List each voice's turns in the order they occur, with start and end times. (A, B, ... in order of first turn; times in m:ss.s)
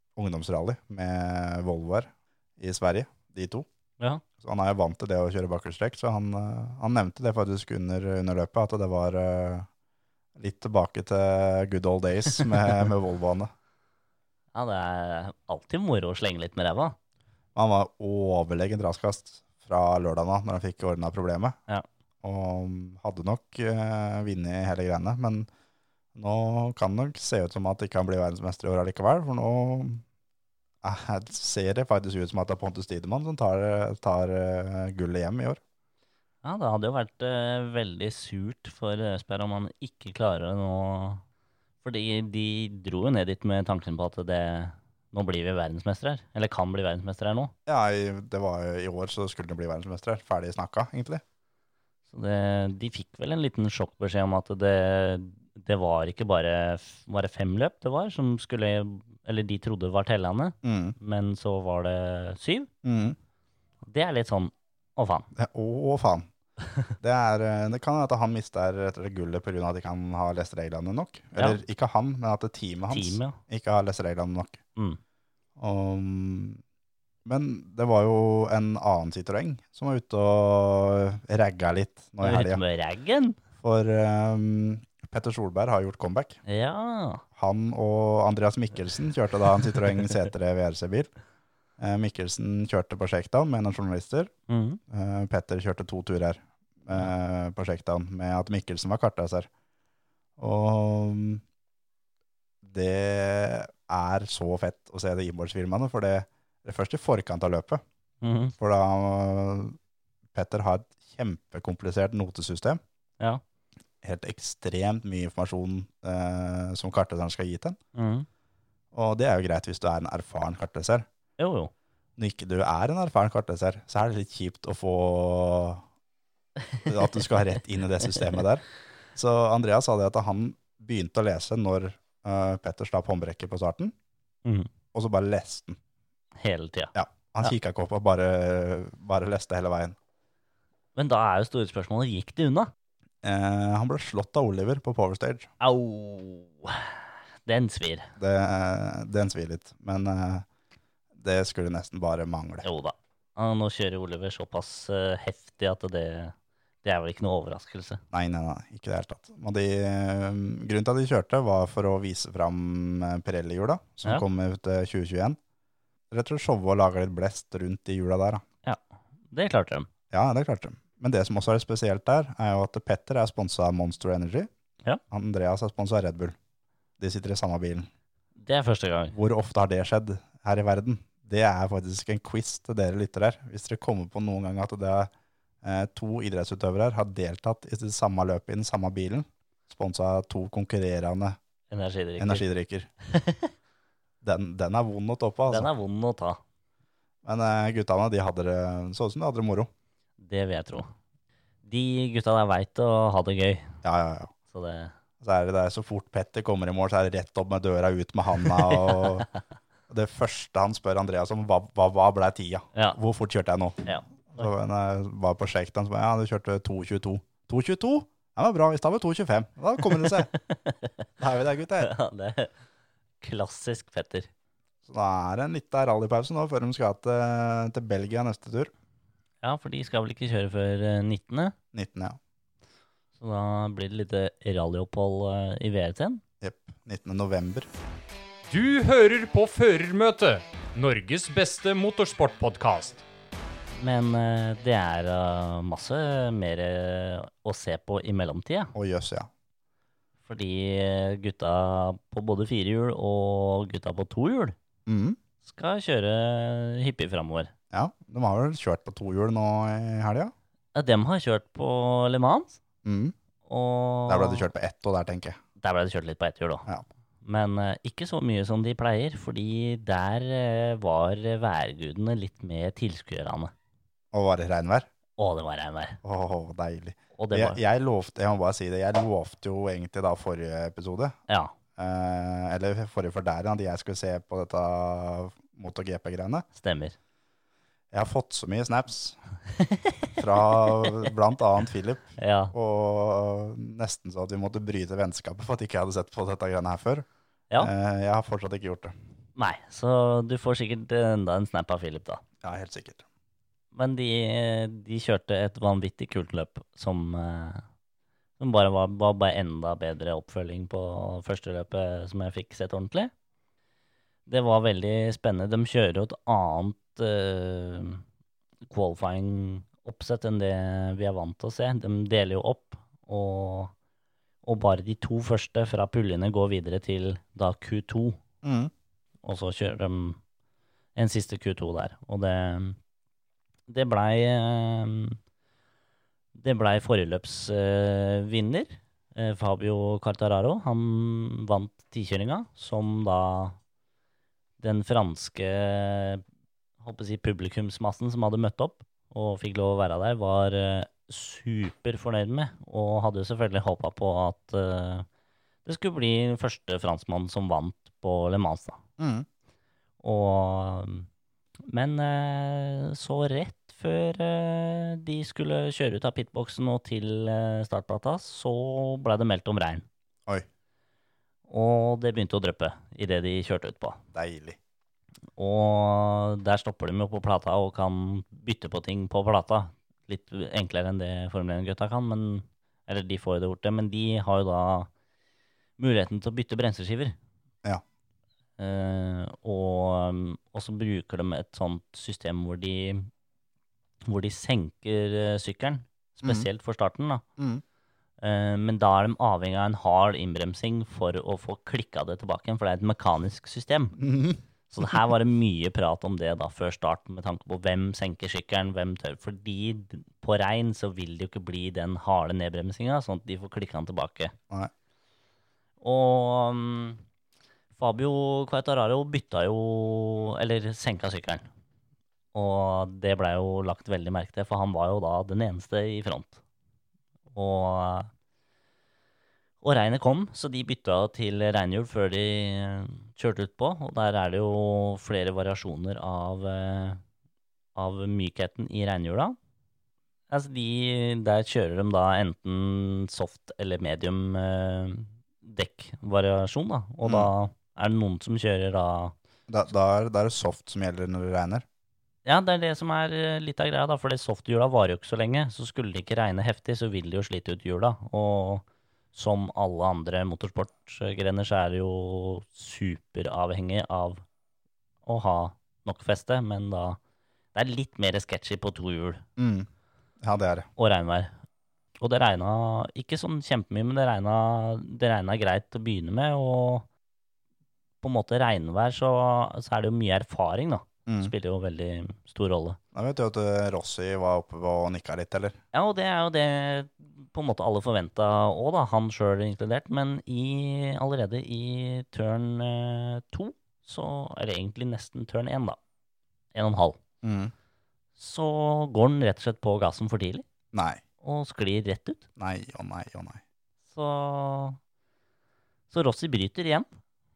0:00.2-0:03.7 A
0:04.4-0:09.7 A
0:10.4-0:13.5 A
0:14.5-0:17.0 B
0:17.6-0:21.6 A
0:22.2-0:25.5 A
0:26.2-0:30.0 A
0:30.8-0:35.6 A
0:36.4-0:41.2 B
0:41.8-0:47.5 B
0:47.7-0:51.2 A
0:52.1-1:02.7 B
1:00.6-1:01.0 A
1:02.8-1:03.2 A
1:03.8-1:05.3 B
1:05.4-1:06.3 A
1:07.0-1:14.6 A
1:12.9-1:13.4 B
1:15.6-1:16.6 A
1:17.2-1:22.6 A
1:22.2-1:23.4 B
1:23.6-1:26.4 A
1:26.5-1:27.2 B
1:27.4-1:31.1 A
1:31.8-1:34.3 A
1:34.5-1:34.8 B
1:34.9-1:39.5 A
1:40.4-1:41.4 A
1:42.6-1:47.8 A
1:48.2-1:48.5 B
1:48.6-1:49.8 A
1:50.3-1:52.8 A
1:54.0-1:57.8 A
1:58.0-1:58.3 B
1:58.9-2:01.1 A
2:01.4-2:01.7 B
2:02.2-2:05.8 A
2:06.9-2:13.9 A
2:14.9-2:15.8 A
2:16.4-2:17.5 B
2:16.9-2:20.0 A
2:21.0-2:22.7 B
2:23.2-2:25.5 A
2:25.6-2:28.1 B
2:28.2-2:30.4 A
2:31.1-2:32.7 A
2:32.6-2:38.0 B
2:38.1-2:45.4 A
2:46.1-2:48.4 A
2:48.6-2:49.9 B
2:50.1-2:54.5 A
2:55.1-2:56.4 A
2:57.0-2:57.9 A
2:58.4-2:59.2 B
2:59.1-3:05.1 A
3:05.6-3:11.4 A
3:11.7-3:12.4 B
3:12.2-3:12.9 A
3:13.1-3:13.5 B
3:14.2-3:15.7 A
3:15.5-3:16.4 B
3:17.2-3:19.7 A
3:20.2-3:20.9 B
3:21.6-3:23.8 B
3:23.8-3:24.3 A
3:24.5-3:24.9 B
3:25.2-3:29.3 A
3:28.6-3:29.2 B
3:29.9-3:40.3 A
3:33.8-3:34.4 B
3:40.0-3:41.0 B
3:41.2-3:41.9 A
3:41.8-3:42.5 B
3:43.2-3:44.3 B
3:44.8-3:48.7 A
3:49.4-3:51.6 B
3:51.7-3:52.2 A
3:53.2-3:56.2 B
3:56.4-3:57.7 A
3:58.5-4:03.0 C
4:03.8-4:08.7 B
4:08.8-4:09.3 A
4:10.3-4:14.6 B
4:14.9-4:15.2 A
4:15.4-4:17.5 B
4:17.7-4:20.3 A
4:20.8-4:22.6 B
4:22.8-4:23.2 A
4:23.5-4:24.5 B
4:24.1-4:25.4 A
4:25.6-4:26.7 B
4:27.2-4:33.5 B
4:34.1-4:34.9 A
4:35.2-4:36.0 B
4:36.0-4:41.2 A
4:37.2-4:37.6 B
4:41.3-4:41.6 B
4:41.8-4:46.5 A
4:46.6-4:47.0 B
4:47.9-4:49.2 A
4:49.6-4:50.1 B
4:50.2-4:57.1 A
4:52.2-4:52.5 B
4:57.6-4:59.0 A
4:59.4-5:02.2 B
5:02.4-5:03.0 A
5:03.7-5:07.6 B
5:08.4-5:13.1 B
5:14.3-5:18.0 B
5:18.7-5:23.7 B
5:24.4-5:28.2 B
5:28.4-5:28.7 A
5:29.2-5:30.2 B
5:31.0-5:32.8 B
5:33.7-5:35.2 B
5:36.4-5:43.6 B
5:44.6-5:46.2 B
5:46.8-5:55.1 B
5:55.6-5:58.8 B
5:59.0-5:59.3 A
6:00.0-6:01.1 B
6:01.7-6:09.9 B
6:11.5-6:14.0 B
6:14.1-6:14.6 A
6:15.4-6:24.9 B
6:25.8-6:27.2 B
6:28.6-6:33.1 B
6:34.0-6:37.2 B
6:36.2-6:36.5 A
6:37.4-6:37.6 A
6:38.2-6:44.0 B
6:44.0-6:45.0 A
6:44.7-6:54.4 B
6:55.8-6:57.0 B
6:57.8-7:01.5 B
7:02.3-7:06.4 B
7:07.3-7:08.1 B
7:09.6-7:17.0 B
7:17.8-7:19.4 B
7:20.3-7:29.1 B
7:27.0-7:27.3 A
7:29.5-7:31.6 A
7:32.2-7:44.2 B
7:45.1-7:47.0 B
7:47.6-7:49.2 B
7:49.4-7:49.7 A
7:50.2-7:50.7 A
7:50.8-7:51.3 B
7:52.0-7:56.9 B
7:58.0-8:02.8 B
8:01.1-8:01.3 A
8:02.9-8:05.6 A
8:05.7-8:15.8 B
8:16.5-8:17.0 B
8:17.2-8:17.5 A
8:18.2-8:20.4 B
8:20.7-8:21.0 A
8:21.2-8:22.2 B
8:22.4-8:23.4 A
8:23.9-8:24.8 B
8:25.9-8:26.9 B